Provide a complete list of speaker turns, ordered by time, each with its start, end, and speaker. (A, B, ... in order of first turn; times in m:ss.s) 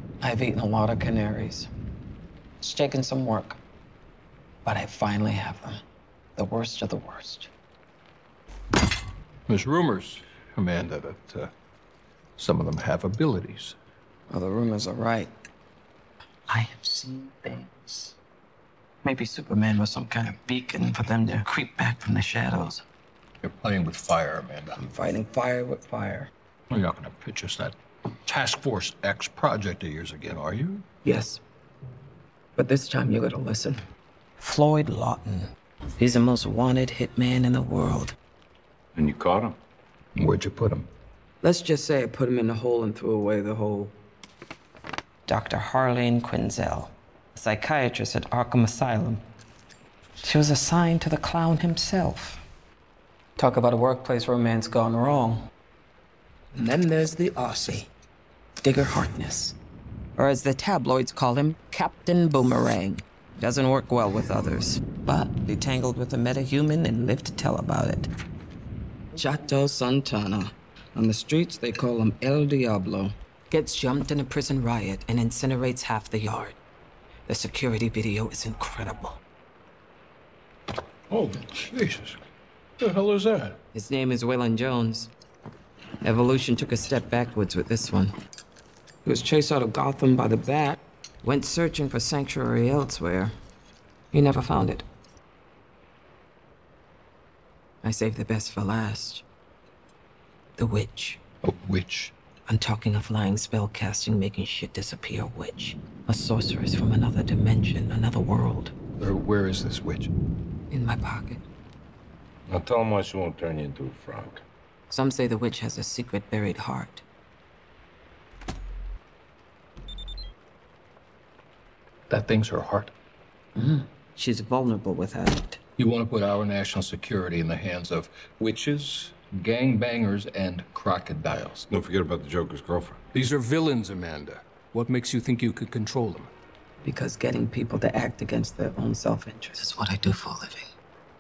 0:00.2-0:01.7 A
0:02.6-0:03.6 A
0:04.6-0:05.8 A
0:06.4-0:07.5 A
0:09.5-0:11.5 B
0:12.4-0:13.8 B
0:14.3-0:15.3 A
0:16.5-0:18.2 A
0:19.0-0:22.8 A
0:23.4-0:24.8 B
0:24.8-0:26.3 A
0:26.7-0:27.8 B
0:28.3-0:30.8 B
0:31.0-0:31.4 A
0:32.6-0:33.8 A
0:34.4-0:38.2 A
0:39.0-0:39.6 C
0:40.2-0:40.9 B
0:41.4-0:44.0 A
0:45.3-0:49.2 A
0:50.2-0:52.4 A
0:53.4-0:55.4 A
0:56.5-0:57.9 A
0:58.6-0:59.6 A
1:00.2-1:08.1 A
1:09.2-1:16.6 A
1:17.3-1:19.2 A
1:21.1-1:22.2 B
1:22.8-1:23.6 B
1:23.7-1:25.1 A
1:26.0-1:28.1 A
1:29.0-1:33.3 A
1:34.1-1:34.9 A
1:37.8-1:39.2 A
1:40.6-1:41.2 A
1:41.4-1:42.1 B
1:42.5-1:48.8 A
1:49.0-1:50.1 B
1:50.7-1:51.4 A
1:52.5-1:54.4 C
1:54.9-1:57.0 A
2:02.1-2:02.9 B
2:03.6-2:05.6 A
2:05.8-2:11.7 B
2:11.7-2:13.0 C
2:13.1-2:16.3 B
2:16.8-2:20.7 A